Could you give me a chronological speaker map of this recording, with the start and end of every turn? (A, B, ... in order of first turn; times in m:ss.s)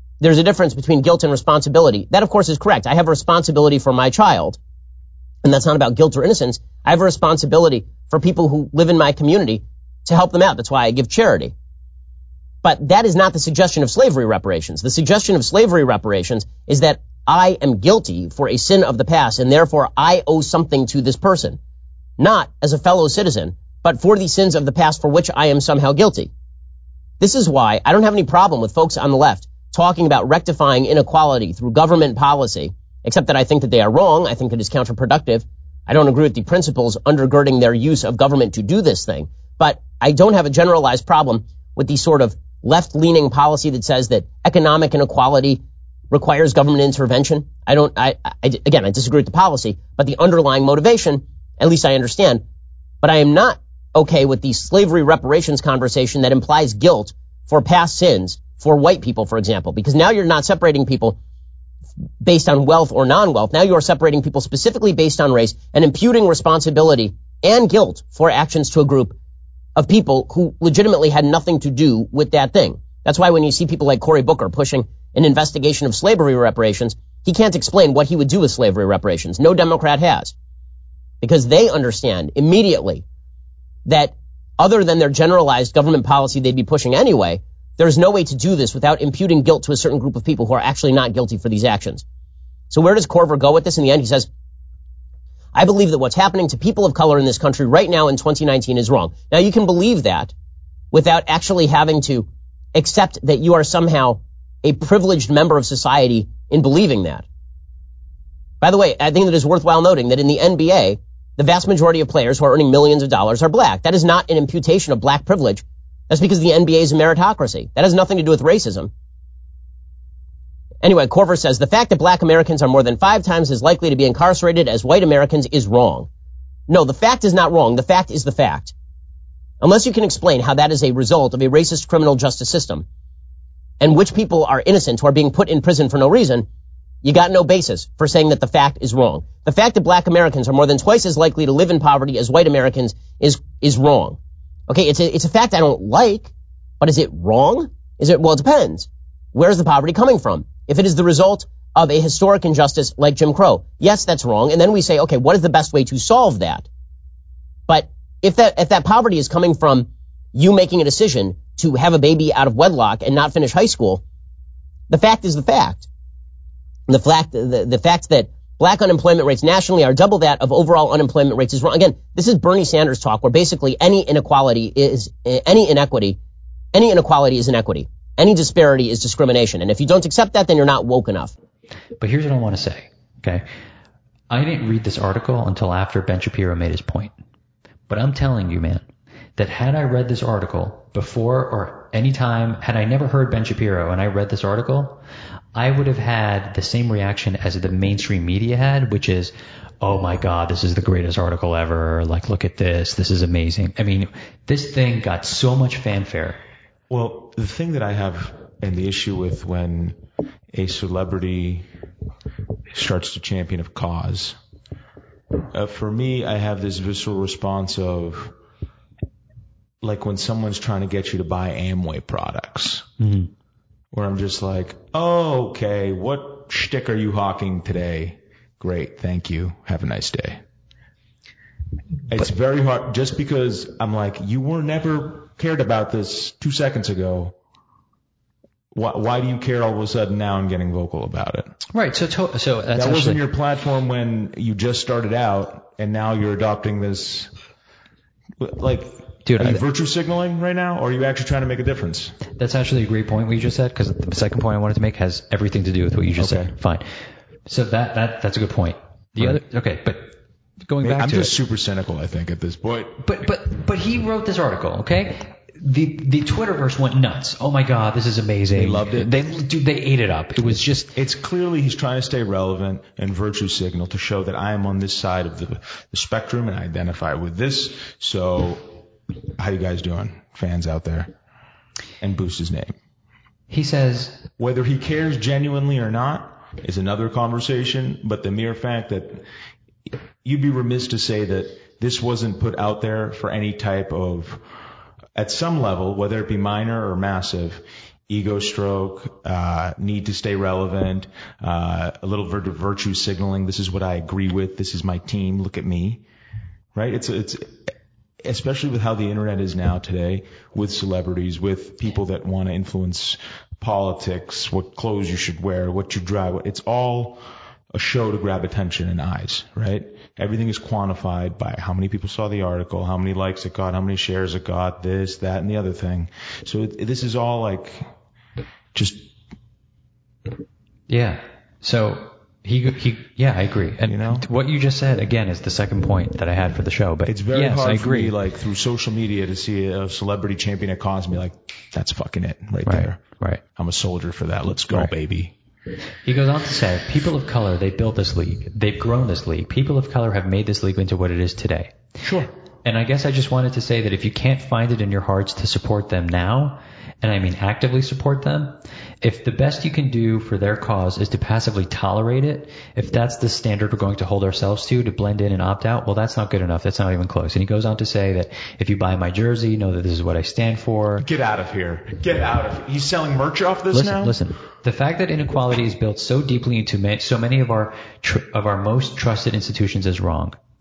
0:00.2-0:04.6 A
0:05.4-0:11.5 A
0:12.6-0:21.6 A
0:22.2-0:26.3 A
0:27.2-0:52.4 A
0:53.0-1:01.2 A
1:02.2-1:09.2 A
1:09.8-1:20.3 A
1:21.2-1:23.0 A
1:23.8-1:32.0 A
1:32.7-1:34.3 A
1:35.5-1:40.3 A
1:40.9-1:47.2 A
1:48.6-1:58.9 A
2:00.8-2:06.1 A
2:06.7-2:08.7 A
2:09.6-2:12.8 A
2:13.8-2:16.4 A
2:17.0-2:24.2 A
2:24.7-2:36.6 A
2:37.7-2:44.0 A
2:44.9-2:45.8 A
2:46.9-2:56.2 A
2:56.7-3:01.3 A
3:02.0-3:03.4 B
3:04.3-3:07.1 B
3:07.9-3:15.0 B
3:15.5-3:26.4 B
3:26.9-3:30.0 C
3:30.5-3:31.6 C
3:32.7-3:34.4 C
3:35.5-3:38.3 C
3:39.8-3:42.9 C
3:43.0-3:43.3 B
3:43.9-3:50.4 C
3:52.1-3:57.4 C
3:58.7-4:01.5 C
4:01.7-4:03.2 B
4:02.7-4:07.3 C
4:08.4-4:12.2 C
4:09.2-4:09.6 B
4:12.4-4:16.8 B
4:16.2-4:16.5 C
4:17.4-4:20.1 B
4:20.6-4:21.3 B
4:20.8-4:23.0 C
4:23.0-4:30.9 B
4:28.5-4:29.3 C
4:30.9-4:38.7 C
4:39.4-4:41.1 C
4:42.0-4:42.8 C
4:43.5-4:44.2 B
4:44.4-4:49.2 C
4:50.2-4:54.4 C
4:55.1-5:06.0 C
5:06.7-5:07.6 C
5:08.2-5:17.2 C
5:17.7-5:27.9 C
5:28.7-5:29.1 C
5:30.9-5:38.1 B
5:33.8-5:34.3 C
5:37.0-5:43.0 C
5:42.6-5:43.4 B
5:43.5-5:45.3 C
5:46.0-5:51.7 B
5:52.0-5:52.3 C
5:52.6-6:11.1 B
6:11.0-6:14.2 C
6:13.7-6:20.4 B